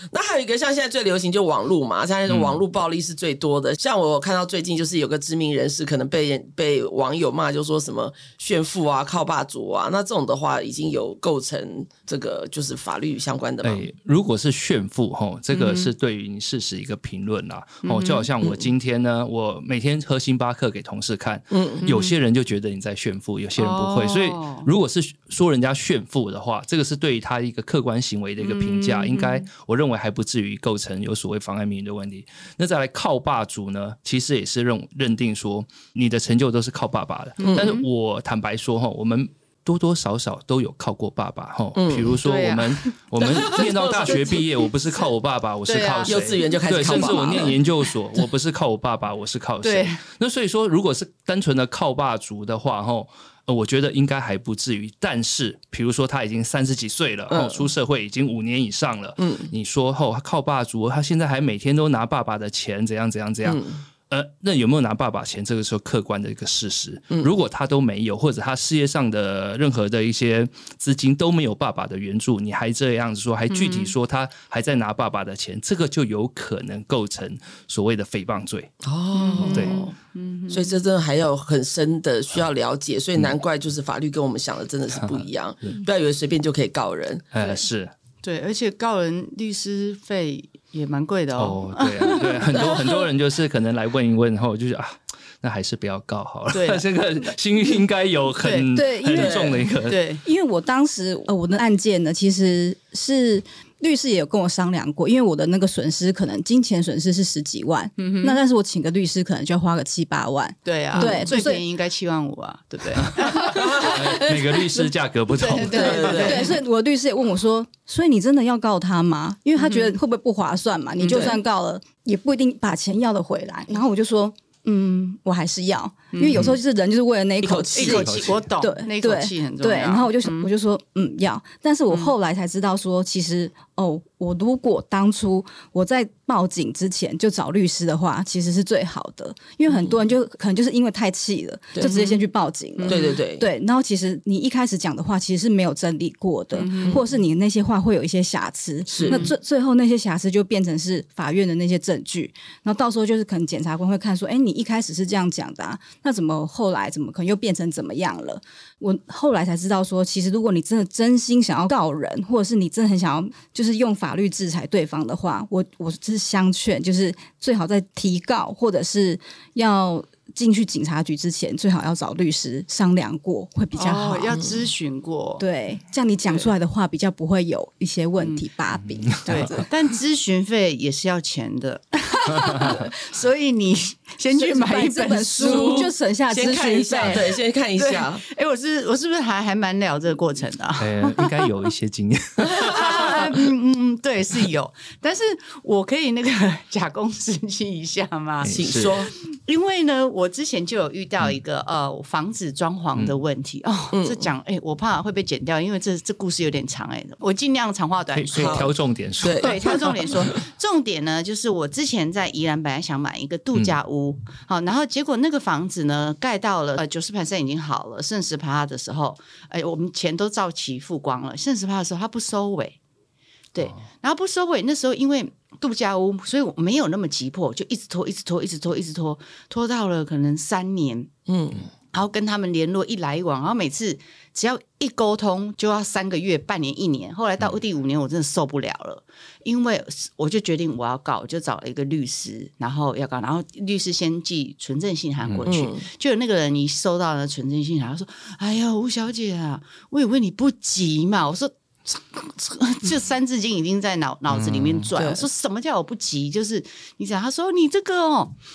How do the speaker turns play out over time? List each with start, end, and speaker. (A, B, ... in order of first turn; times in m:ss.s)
0:00.1-0:13.8 A
0:02.3-0:02.6 B
0:13.6-1:18.7 B
0:15.5-0:15.9 C
0:17.8-0:18.3 C
0:21.5-0:21.8 A
0:21.8-0:22.1 C
0:23.6-0:24.7 C
0:28.4-0:29.4 C
0:37.4-0:37.8 C
0:37.4-0:37.8 A
0:41.8-0:42.2 A
0:42.2-0:44.4 C
0:43.2-0:44.4 A
0:45.6-0:47.5 C
0:46.0-0:47.6 A
0:49.6-0:50.0 C
0:57.3-0:57.6 A
0:59.2-0:59.5 A
1:03.4-1:03.8 A
1:13.5-1:13.9 C
1:18.8-1:19.9 A
1:19.1-1:20.7 C
1:19.4-1:19.8 B
1:20.5-1:27.2 A
1:25.0-1:25.8 B
1:27.3-1:27.9 B
1:28.2-1:33.0 C
1:31.3-1:40.0 B
1:32.5-1:32.8 A
1:36.5-1:36.8 C
1:38.4-1:38.7 C
1:38.7-1:39.6 D
1:39.1-1:39.7 A
1:39.9-1:40.2 C
1:40.2-1:51.6 D
1:48.0-1:48.4 C
1:50.6-1:54.3 C
1:50.9-1:51.3 A
1:53.1-1:56.4 B
1:53.2-1:54.8 D
1:55.3-1:56.6 C
1:55.6-1:56.5 A
1:56.0-2:54.4 D
1:59.6-2:00.0 C
2:01.0-2:01.4 C
2:06.1-2:06.5 C
2:07.4-2:08.2 A
2:07.7-2:10.5 C
2:07.9-2:08.5 B
2:21.8-2:22.2 C
2:22.8-2:23.2 C
2:22.8-2:23.5 A
2:26.5-2:27.1 C
2:28.9-2:29.3 A
2:29.0-2:29.3 C
2:53.7-2:55.4 C
2:55.4-2:59.7 D
2:58.2-2:58.4 C
2:59.0-2:59.5 B
2:59.2-3:05.9 C
3:02.3-3:02.8 B
3:04.3-3:07.3 D
3:05.4-3:08.2 A
3:07.0-3:11.5 C
3:10.8-3:13.4 B
3:12.4-3:28.7 C
3:18.4-3:19.1 B
3:18.5-3:19.1 A
3:23.9-3:24.3 A
3:28.1-3:30.2 B
3:28.3-3:28.7 A
3:29.2-3:30.3 A
3:29.3-3:42.8 C
3:43.5-3:51.1 C
3:51.3-3:51.7 A
3:51.9-4:18.4 C
4:05.2-4:05.5 B
4:05.4-4:05.9 A
4:14.3-4:14.9 B
4:15.0-4:15.2 A